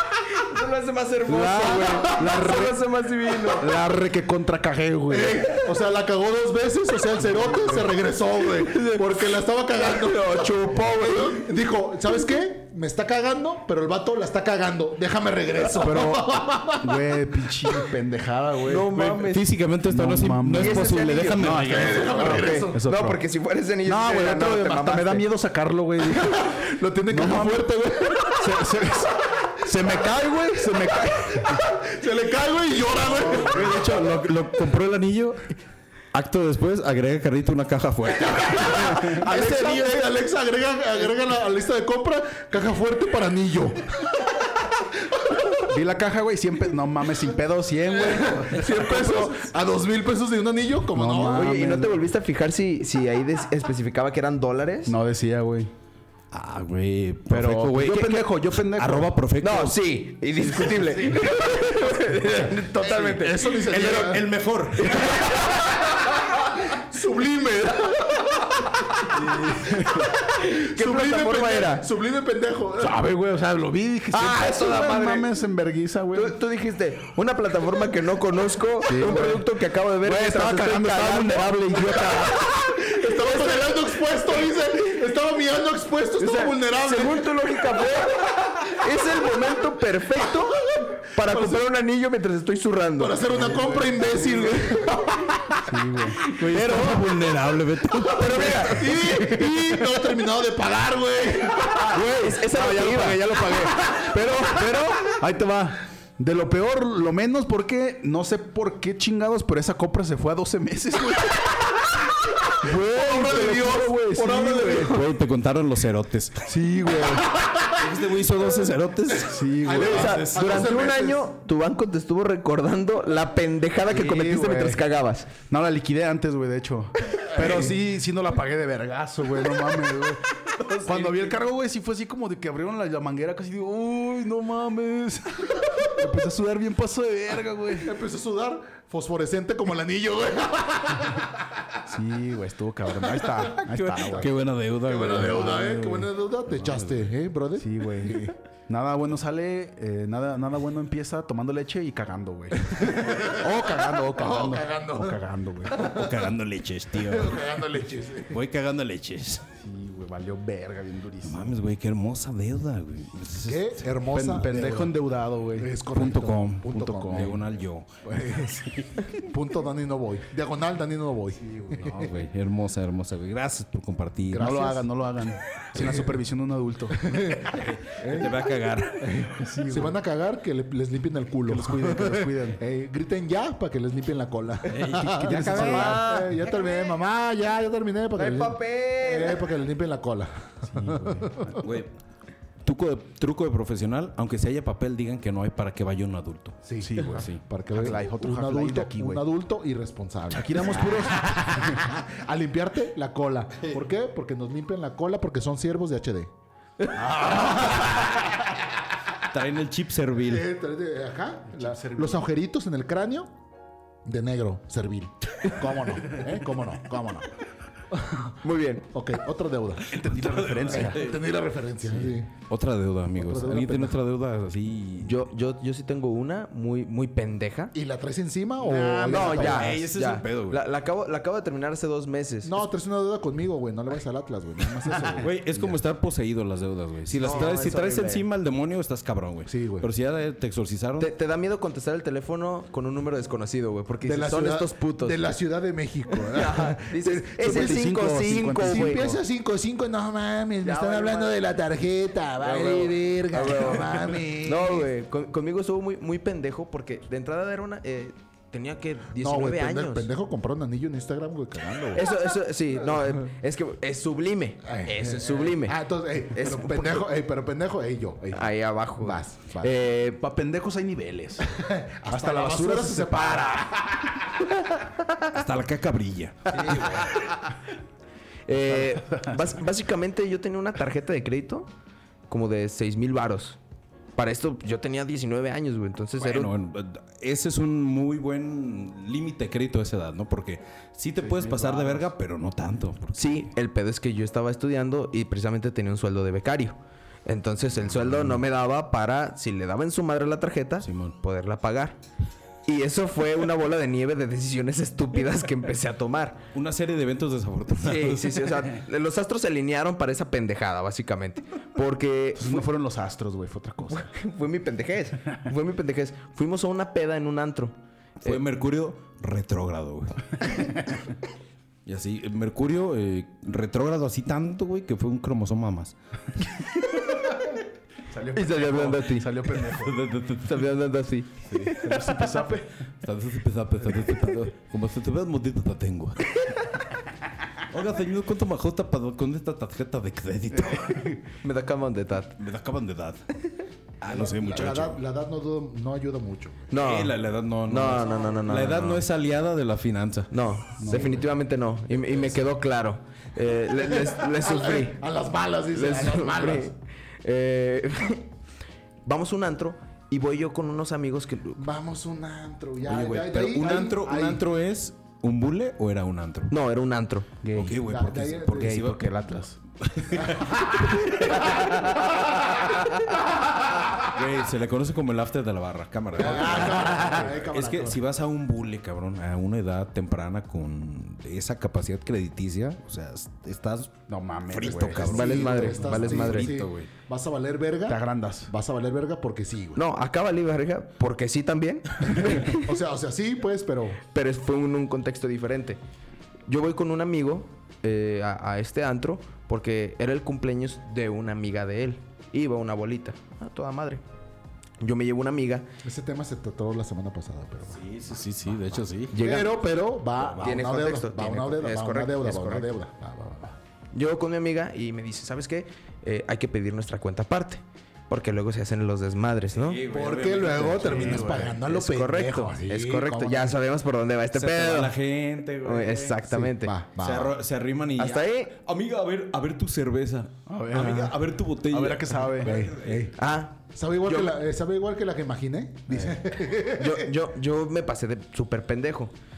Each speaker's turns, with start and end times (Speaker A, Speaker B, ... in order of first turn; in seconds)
Speaker A: 0.3-3.7, 8.6-11.5, 18.6-19.5, 20.6-25.3, 48.7-49.3, 51.3-55.0, 59.4-63.6, 64.8-66.0, 70.3-71.8, 74.1-75.3, 76.1-83.8, 86.2-93.2, 96.5-97.0, 98.1-98.9, 101.9-103.3, 119.8-125.3, 185.3-186.9, 188.1-189.4, 218.4-218.8, 225.0-227.7, 229.1-232.6, 237.1-238.2, 241.0-245.2, 246.2-249.1, 250.6-251.3, 252.4-260.1, 261.9-265.8, 266.3-267.1, 268.3-270.2, 274.6-275.0, 276.7-276.9, 278.5-281.7, 282.3-283.6, 284.1-286.5, 293.1-302.0, 302.6-306.4, 307.8-312.6, 313.9-318.4, 328.3-329.3, 330.4-332.4, 341.4-342.4, 346.7-349.0, 350.3-355.0, 355.7-358.3, 359.0-361.6, 366.5-367.3, 371.4-373.0, 385.0-386.5, 389.7-392.6, 394.1-395.8, 396.5-404.0, 404.8-405.7, 409.1-409.6, 410.4-412.7, 413.9-419.8, 421.6-424.9, 425.6-426.7, 428.0-428.5, 433.1-434.3, 436.8-439.1
Speaker B: 1.3-2.8, 3.4-5.5, 7.3-7.8, 15.7-18.9, 19.9-23.2, 23.8-27.7, 28.2-31.7, 45.6-49.2, 50.9-52.0, 54.9-55.7, 57.3-59.1, 69.1-70.1, 72.8-76.4, 78.8-79.5, 80.0-81.6, 93.3-94.0, 95.7-96.2, 101.7-111.8, 112.6-115.0, 116.5-117.3, 119.2-120.6, 123.9-124.8, 125.5-137.9, 141.9-144.3, 145.2-146.0, 147.6-155.9, 159.6-161.5, 164.1-165.7, 166.9-167.3, 168.1-168.6, 174.4-177.3, 179.4-179.9, 181.5-182.6, 185.0-186.2, 190.7-191.6, 196.8-199.2, 200.3-201.8, 207.0-207.3, 211.5-212.2, 219.9-221.1, 228.6-229.8, 247.4-249.2, 270.2-271.5, 272.1-273.6, 278.7-279.3, 291.2-292.0, 312.4-314.1, 328.1-330.0, 331.6-332.7, 350.8-351.2, 367.4-367.8, 368.6-369.6, 384.1-386.0, 387.9-388.5, 420.8-421.6, 430.5-432.6
Speaker C: 5.1-17.9, 21.6-22.9, 26.0-28.9, 31.1-33.7, 38.3-44.1, 48.0-51.6, 63.0-64.3, 66.7-69.0, 70.2-73.0, 81.6-87.6, 90.4-91.6, 93.0-95.6, 98.5-101.9, 112.7-114.8, 119.6-121.2, 127.4-127.7, 137.8-141.4, 143.2-143.5, 144.8-148.3, 152.9-156.3, 157.0-158.4, 163.4-167.4, 168.1-172.2, 174.3-174.9, 175.7-176.2, 177.0-178.4, 179.0-191.6, 196.6-206.3, 206.9-208.3, 210.2-213.3, 214.0-217.3, 217.9-218.3, 218.9-220.0, 220.6-222.3, 223.2-224.0, 227.7-229.8, 232.4-235.8, 239.5-239.9, 244.0-247.8, 248.6-254.9, 259.1-262.1, 264.6-269.7, 271.4-274.2, 344.0-346.7, 353.8-356.7, 361.6-364.4, 367.7-368.8, 370.2-372.0, 376.1-378.0, 384.9-389.8, 392.2-394.0, 405.8-407.8, 409.1-413.5, 419.9-423.6, 426.3-427.3, 432.4-433.1, 433.7-437.1
Speaker D: 18.9-22.1, 33.2-35.4, 36.1-39.4, 56.3-59.8, 63.5-65.2, 96.2-99.6, 114.7-116.5, 117.7-120.7, 130.5-131.3, 143.6-145.9, 146.6-146.9, 155.8-157.4, 158.3-159.4, 161.2-163.8, 165.9-167.9, 171.8-174.6, 177.5-179.3, 184.7-185.7, 191.6-191.9, 192.6-197.4, 209.3-210.5, 220.1-221.2, 222.4-225.2, 229.3-230.6, 235.2-241.1, 275.3-277.0, 286.2-293.5, 300.8-301.1, 306.5-308.7, 318.2-320.8, 321.8-325.9, 329.6-330.7, 333.0-336.4, 337.7-341.1, 342.4-343.3, 344.0-345.0, 346.7-350.3, 362.8-366.5, 367.5-369.1, 369.8-371.5, 374.1-386.9, 407.7-409.2, 410.2-410.6, 419.5-421.6, 424.3-426.2, 426.9-433.1